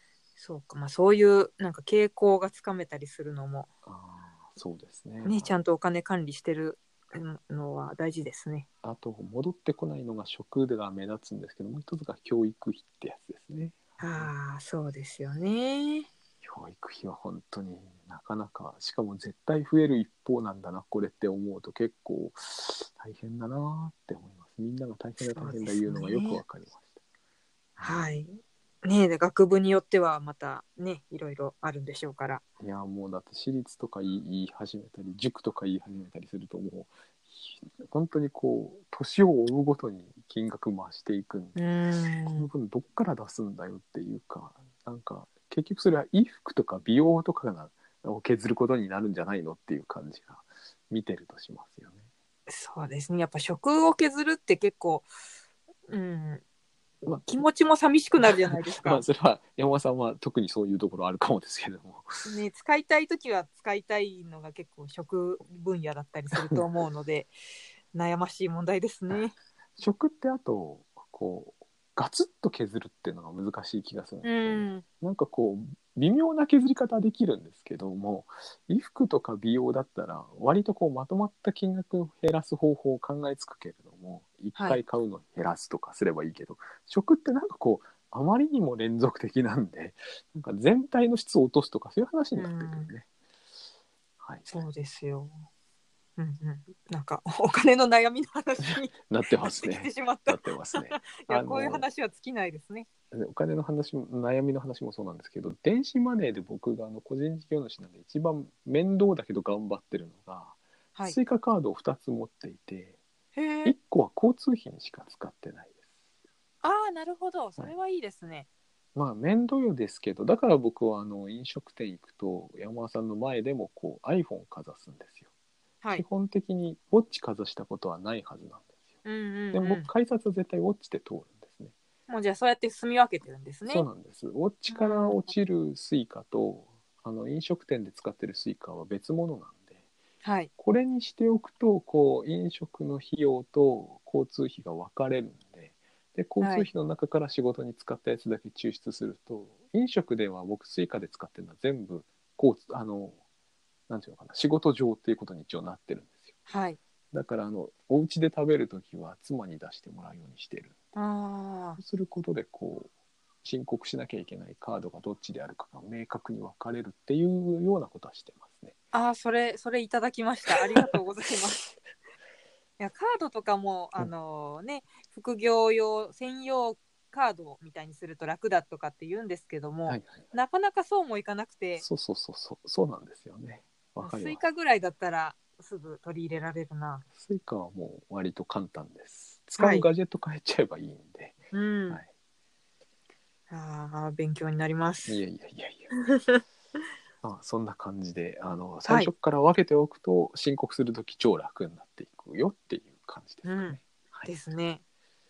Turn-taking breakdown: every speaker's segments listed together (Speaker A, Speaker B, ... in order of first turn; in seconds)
Speaker A: 0.4-3.7, 5.2-8.7, 14.0-16.1, 25.2-26.4, 27.8-32.4, 41.5-42.5, 52.5-55.1, 55.9-56.4, 57.3-59.0, 62.2-67.3, 67.9-69.3, 74.2-74.8, 92.4-92.9, 94.5-95.3, 96.2-102.9, 113.3-113.8, 116.6-118.5, 129.1-129.9, 132.1-133.9, 134.7-135.3, 140.2-140.5, 146.4-146.7, 156.5-156.8, 160.9-161.8, 168.9-171.6, 172.8-181.8, 184.0-187.1, 189.6-189.9, 191.5-192.0, 193.5-195.2, 195.9-196.4, 203.4-204.8
Speaker B: 3.9-5.5, 8.8-14.3, 16.4-27.0, 27.8-28.1, 32.6-41.6, 42.3-52.0, 57.0-57.5, 58.2-62.3, 66.3-66.6, 69.8-93.1, 94.2-94.5, 98.7-101.9, 103.1-113.0, 113.7-115.8, 119.0-125.3, 125.9-128.7, 129.5-131.7, 133.7-139.8, 140.6-153.2, 153.9-156.3, 157.1-160.7, 161.8-162.9, 163.4-168.8, 170.5-171.0, 179.9-180.3, 181.8-184.4, 187.1-191.4, 195.1-195.9, 197.2-204.3